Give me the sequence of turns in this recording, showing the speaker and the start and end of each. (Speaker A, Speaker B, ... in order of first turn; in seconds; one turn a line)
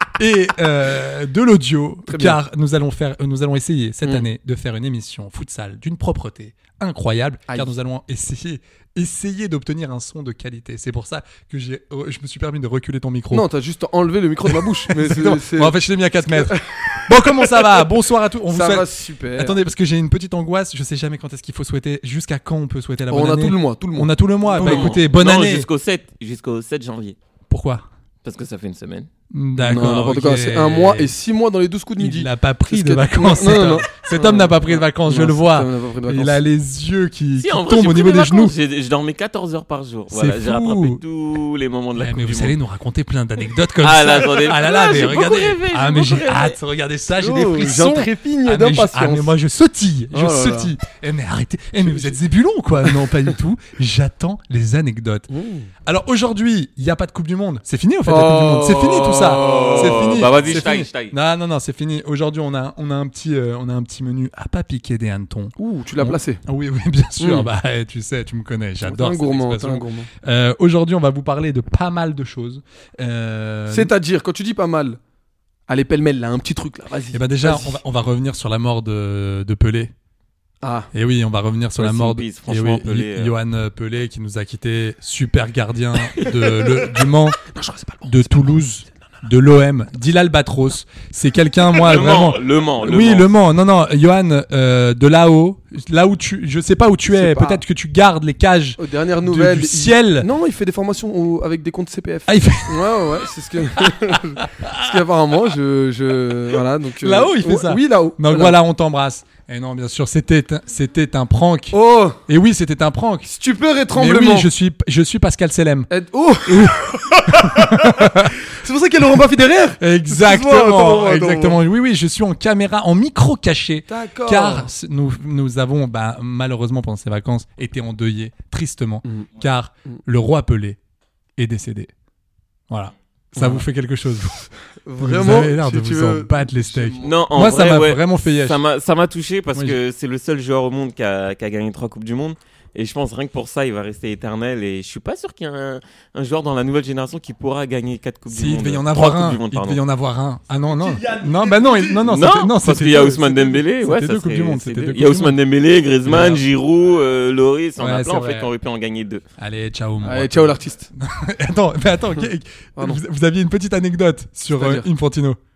Speaker A: 0.2-13.5
Speaker B: 2.1-2.4
Speaker B: 7.5-7.7
Speaker B: 13.3-17.8
Speaker A: 14.4-25.7
Speaker B: 18.5-19.6
Speaker B: 23.1-25.0
Speaker C: 24.6-27.1
Speaker A: 27.5-27.9
Speaker C: 28.2-29.1
Speaker A: 29.3-31.1
Speaker B: 29.6-36.4
Speaker A: 32.0-38.5
Speaker C: 37.4-42.5
Speaker A: 40.1-41.0
Speaker A: 42.0-55.3
Speaker C: 43.8-46.5
Speaker B: 47.1-49.3
Speaker B: 50.1-50.7
Speaker B: 51.8-52.2
Speaker B: 55.3-55.7
Speaker A: 55.8-73.9
Speaker B: 58.0-60.5
Speaker C: 59.3-61.1
Speaker B: 65.6-66.4
Speaker B: 67.2-67.5
Speaker B: 68.8-70.1
Speaker B: 73.7-75.0
Speaker B: 75.7-77.8
Speaker A: 77.1-79.9
Speaker B: 80.6-80.9
Speaker A: 80.9-87.4
Speaker C: 81.8-83.3
Speaker B: 86.2-86.8
Speaker B: 87.4-88.6
Speaker A: 88.0-100.3
Speaker C: 91.7-93.3
Speaker B: 97.1-97.6
Speaker B: 98.8-108.6
Speaker A: 102.3-103.2
Speaker A: 103.8-105.0
Speaker A: 107.0-113.3
Speaker B: 111.7-112.2
Speaker B: 113.2-114.5
Speaker A: 113.9-115.9
Speaker B: 115.9-121.6
Speaker A: 116.5-118.3
Speaker A: 119.8-130.8
Speaker B: 123.9-124.7
Speaker A: 131.4-131.9
Speaker A: 132.7-134.3
Speaker B: 133.3-133.7
Speaker B: 134.8-137.3
Speaker A: 135.0-138.6
Speaker C: 137.0-149.8
Speaker A: 148.3-155.4
Speaker B: 150.7-152.1
Speaker C: 152.0-159.2
Speaker A: 156.0-156.4
Speaker A: 157.8-158.5
Speaker A: 159.4-165.4
Speaker B: 160.0-160.9
Speaker B: 164.5-164.8